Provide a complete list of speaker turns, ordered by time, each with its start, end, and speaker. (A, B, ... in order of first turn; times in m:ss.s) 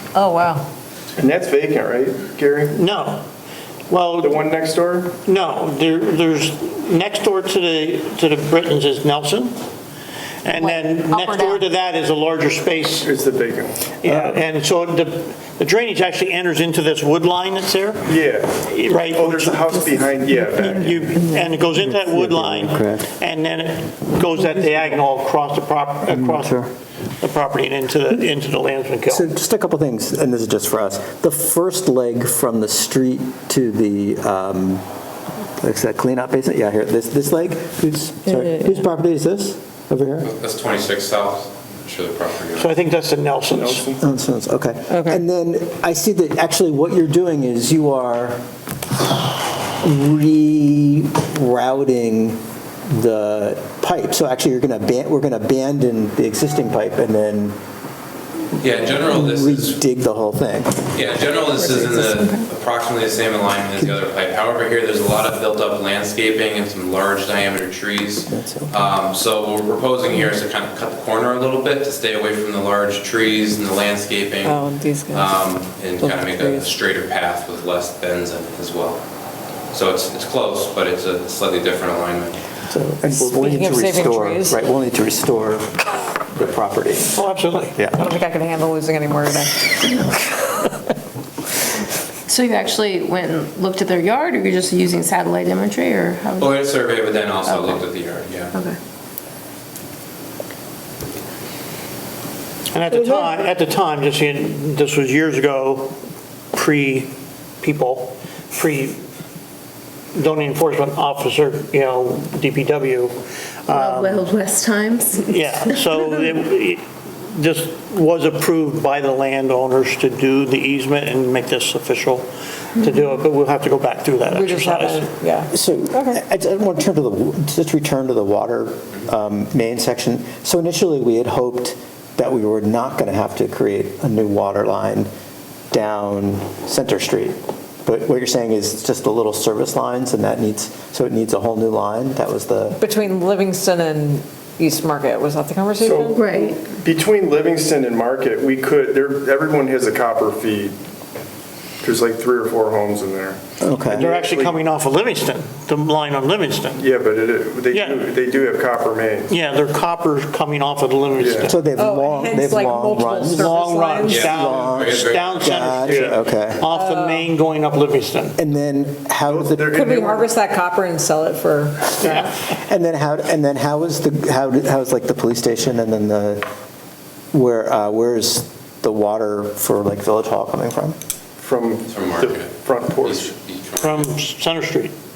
0:00.1-0:00.6 A
0:01.2-0:02.7 B
0:02.7-0:03.2 C
0:03.9-0:04.4 C
0:04.2-0:05.1 B
0:05.2-0:09.6 C
0:10.4-0:13.1 C
0:10.6-0:11.7 A
0:13.0-0:13.7 B
0:14.0-0:26.6 C
0:14.1-0:14.4 D
0:18.0-0:21.1 B
0:21.7-0:23.1 D
0:26.1-0:26.7 D
0:27.2-0:29.3 C
0:29.1-0:34.8 D
0:35.6-0:40.3 D
0:38.3-0:38.7 A
0:40.2-0:42.7 E
0:42.5-0:43.8 C
0:43.5-0:44.0 B
0:44.0-0:48.4 D
0:44.9-0:45.2 A
0:49.8-0:57.6 D
0:58.6-0:59.8 E
0:58.9-1:00.8 D
1:00.9-1:19.0 E
1:01.6-1:02.4 A
1:08.3-1:08.8 D
1:14.4-1:16.7 A
1:19.7-1:22.4 E
1:22.7-1:27.2 D
1:23.0-1:24.6 A
1:27.1-1:27.8 C
1:27.8-1:28.0 D
1:28.0-1:30.7 A
1:32.3-1:36.5 F
1:36.4-1:38.5 E
1:37.5-1:37.8 F
1:42.7-1:46.0 C
1:42.9-1:43.3 A
1:46.5-1:49.0 C
1:50.1-1:54.3 C
1:53.8-1:55.3 F
1:55.3-2:05.1 C
2:04.3-2:06.2 A
2:05.5-2:15.1 D
2:15.7-2:22.8 D
2:22.8-2:26.6 A
2:25.8-2:26.1 B
2:26.1-2:26.5 F
2:26.7-2:30.7 B
2:31.8-2:33.4 B
2:33.6-2:34.1 D
2:33.9-2:36.8 C
2:33.9-2:34.7 B
2:36.8-2:39.3 B
2:37.7-2:38.1 C
2:39.3-2:41.6 C
2:41.2-2:41.5 B
2:41.5-2:43.5 D
2:41.8-2:44.3 A
2:43.3-2:48.4 C
2:44.0-2:45.9 E
2:44.2-2:46.6 D
2:46.7-2:47.3 A
2:48.4-2:49.7 D
2:49.3-2:50.3 B
2:49.7-2:52.3 A
2:52.0-2:52.3 C
2:52.4-2:56.4 D
2:57.3-3:01.0 D
3:01.4-3:03.3 B
3:01.9-3:04.1 E
3:03.8-3:04.9 C